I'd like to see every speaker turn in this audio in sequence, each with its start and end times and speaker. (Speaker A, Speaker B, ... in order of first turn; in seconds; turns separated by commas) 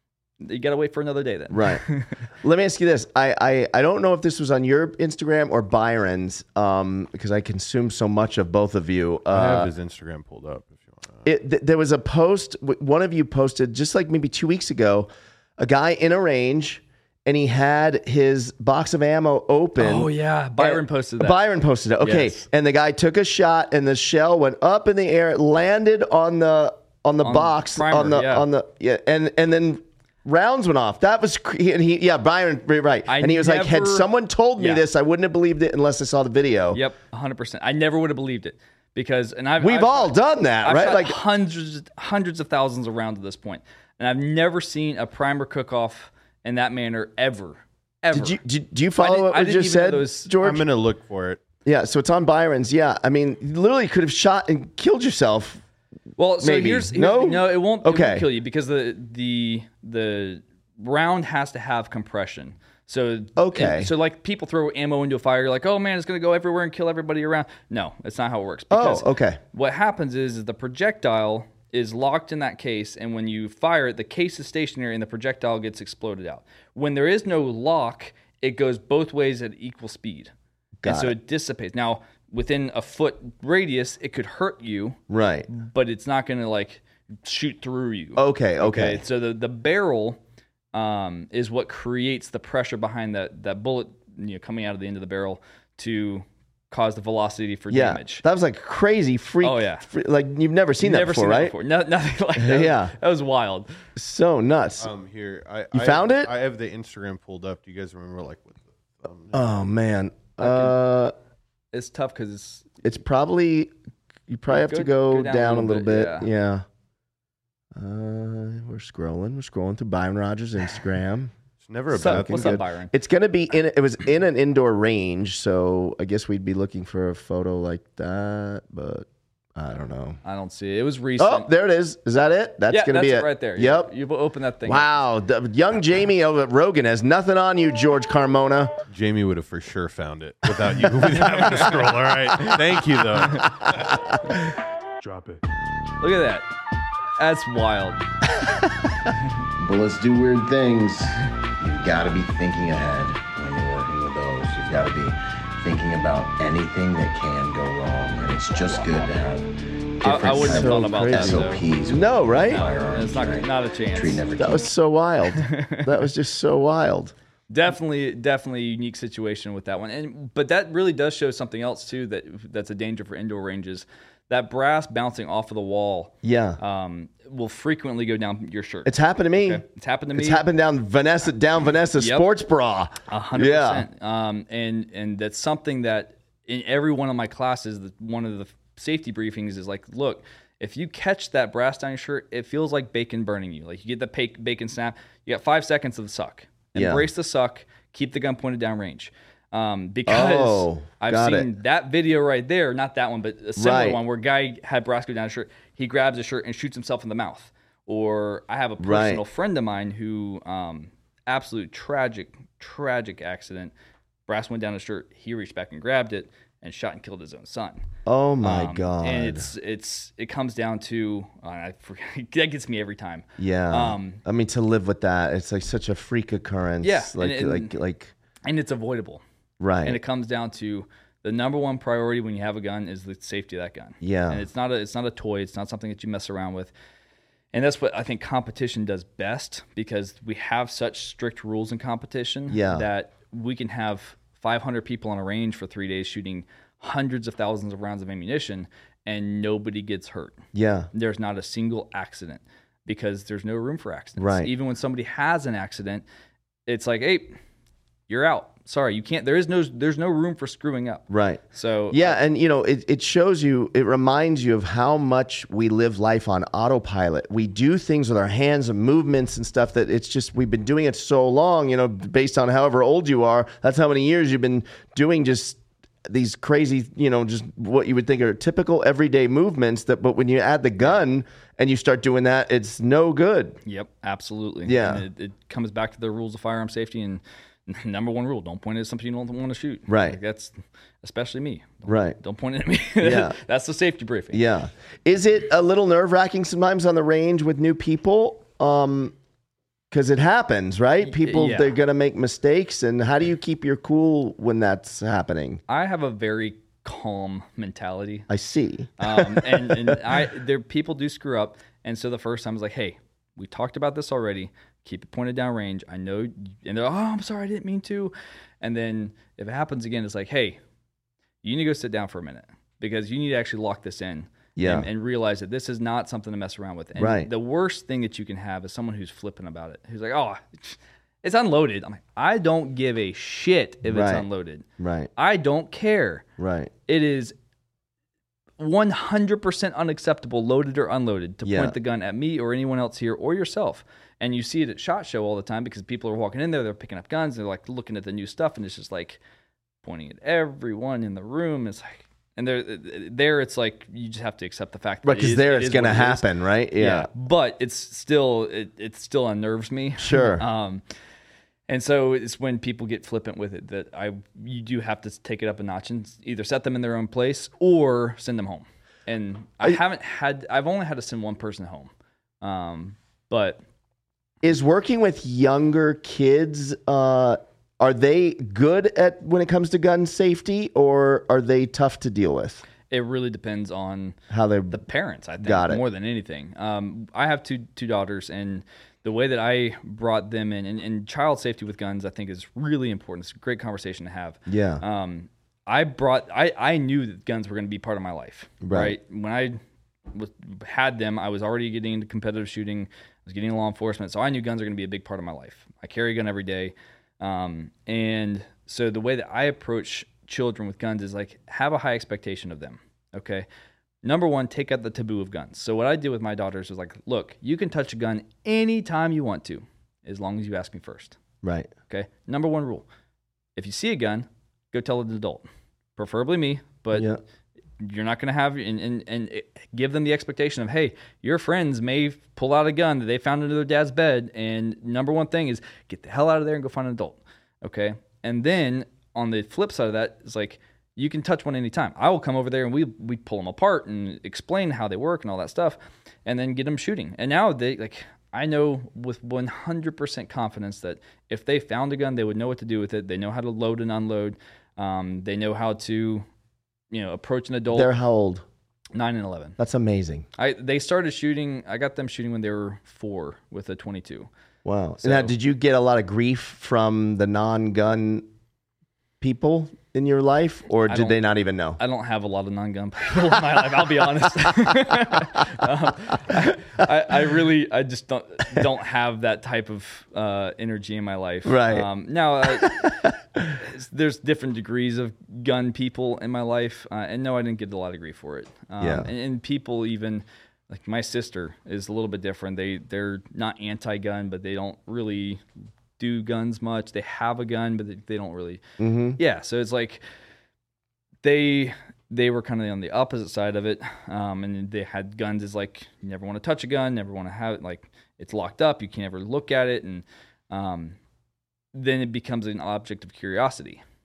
Speaker A: 0.4-2.2, Speaker B: 1.5-1.8, Speaker B: 2.4-9.7, Speaker C: 9.3-11.2, Speaker B: 11.2-36.8, Speaker A: 19.8-21.4, Speaker A: 22.0-22.4, Speaker A: 27.2-28.5, Speaker A: 33.1-34.8, Speaker A: 36.7-48.4, Speaker B: 39.6-41.2, Speaker B: 48.1-50.6, Speaker A: 49.0-50.3, Speaker C: 50.4-51.4, Speaker B: 51.6-55.6, Speaker A: 56.2-80.3, Speaker B: 56.4-58.3, Speaker B: 63.4-63.9, Speaker B: 68.7-69.4, Speaker B: 80.8-81.1, Speaker A: 80.8-90.2, Speaker B: 85.1-85.5, Speaker B: 88.2-89.0, Speaker A: 90.7-98.2, Speaker B: 97.7-101.5, Speaker A: 99.4-99.8, Speaker A: 100.8-103.7, Speaker B: 102.4-102.9, Speaker B: 104.0-104.9, Speaker C: 104.8-109.5, Speaker B: 105.7-106.3, Speaker B: 109.3-111.1, Speaker A: 110.4-110.8, Speaker A: 111.7-112.7, Speaker B: 112.8-113.7, Speaker B: 114.3-116.6, Speaker A: 114.5-116.3, Speaker B: 117.7-121.3, Speaker C: 121.6-122.6, Speaker B: 121.9-130.2, Speaker A: 121.9-122.9, Speaker A: 130.2-131.5, Speaker B: 131.2-133.9, Speaker A: 132.7-135.0, Speaker B: 134.6-138.7, Speaker C: 138.9-144.0, Speaker B: 140.8-142.6, Speaker B: 143.3-144.5, Speaker C: 145.0-145.4, Speaker A: 146.0-146.5, Speaker A: 147.2-148.0, Speaker D: 149.6-164.7, Speaker A: 160.0-161.6, Speaker B: 160.3-162.6, Speaker A: 162.5-164.2, Speaker B: 164.4-167.1, Speaker A: 165.3-165.9, Speaker A: 167.5-180.4, Speaker B: 176.2-176.6, Speaker B: 178.8-183.9, Speaker A: 182.0-182.2, Speaker A: 183.1-213.7, Speaker B: 196.7-197.1, Speaker B: 200.1-201.5, Speaker B: 203.6-204.0, Speaker B: 208.8-209.2, Speaker A: 214.3-217.8, Speaker B: 218.1-219.5, Speaker A: 218.4-224.2, Speaker B: 223.4-228.1, Speaker A: 226.8-227.7, Speaker A: 228.4-229.2, Speaker B: 229.6-230.0, Speaker A: 229.8-236.7, Speaker B: 234.0-234.4, Speaker A: 237.5-256.0, Speaker B: 242.5-242.8, Speaker B: 250.5-250.9, Speaker B: 254.2-254.5, Speaker A: 256.6-257.4, Speaker A: 258.1-262.2, Speaker B: 261.1-283.6, Speaker A: 283.6-294.4, Speaker B: 284.6-285.0, Speaker B: 289.9-290.2, Speaker B: 291.9-292.2, Speaker B: 293.0-293.4, Speaker B: 294.3-299.1, Speaker B: 299.9-305.6, Speaker A: 301.1-301.8, Speaker A: 305.7-308.3, Speaker B: 308.3-310.0, Speaker A: 309.0-320.6, Speaker A: 321.4-336.2, Speaker B: 324.6-324.9, Speaker B: 327.0-327.3, Speaker B: 333.9-334.2, Speaker B: 334.8-335.1, Speaker B: 336.4-336.7, Speaker A: 336.9-337.3, Speaker A: 338.6-349.2, Speaker B: 341.4-341.8, Speaker A: 349.8-356.2, Speaker B: 355.0-357.1, Speaker A: 356.8-360.8, Speaker B: 360.0-360.4, Speaker A: 361.7-371.9, Speaker A: 372.4-373.6, Speaker B: 374.4-382.6, Speaker A: 382.9-384.2, Speaker B: 384.3-384.8, Speaker A: 384.7-399.6, Speaker B: 385.4-385.8, Speaker B: 394.5-394.8, Speaker B: 398.6-398.9, Speaker A: 400.1-413.5, Speaker A: 414.0-421.2, Speaker B: 421.4-421.7, Speaker A: 421.9-422.9, Speaker A: 423.6-427.1, Speaker B: 426.9-427.2, Speaker A: 427.8-456.3, Speaker A: 456.9-457.9, Speaker B: 457.7-458.4, Speaker A: 458.9-459.6, Speaker B: 459.6-460.2, Speaker A: 460.4-464.3, Speaker B: 464.6-468.3, Speaker A: 465.0-465.3, Speaker B: 469.2-471.8, Speaker A: 470.9-471.2, Speaker A: 471.8-483.1, Speaker B: 476.3-476.8, Speaker B: 481.4-481.9, Speaker B: 482.6-483.6, Speaker A: 483.6-495.4, Speaker B: 488.8-489.1, Speaker A: 496.0-498.6, Speaker B: 498.8-499.2, Speaker A: 499.1-500.0, Speaker A: 501.2-511.0, Speaker A: 511.7-513.8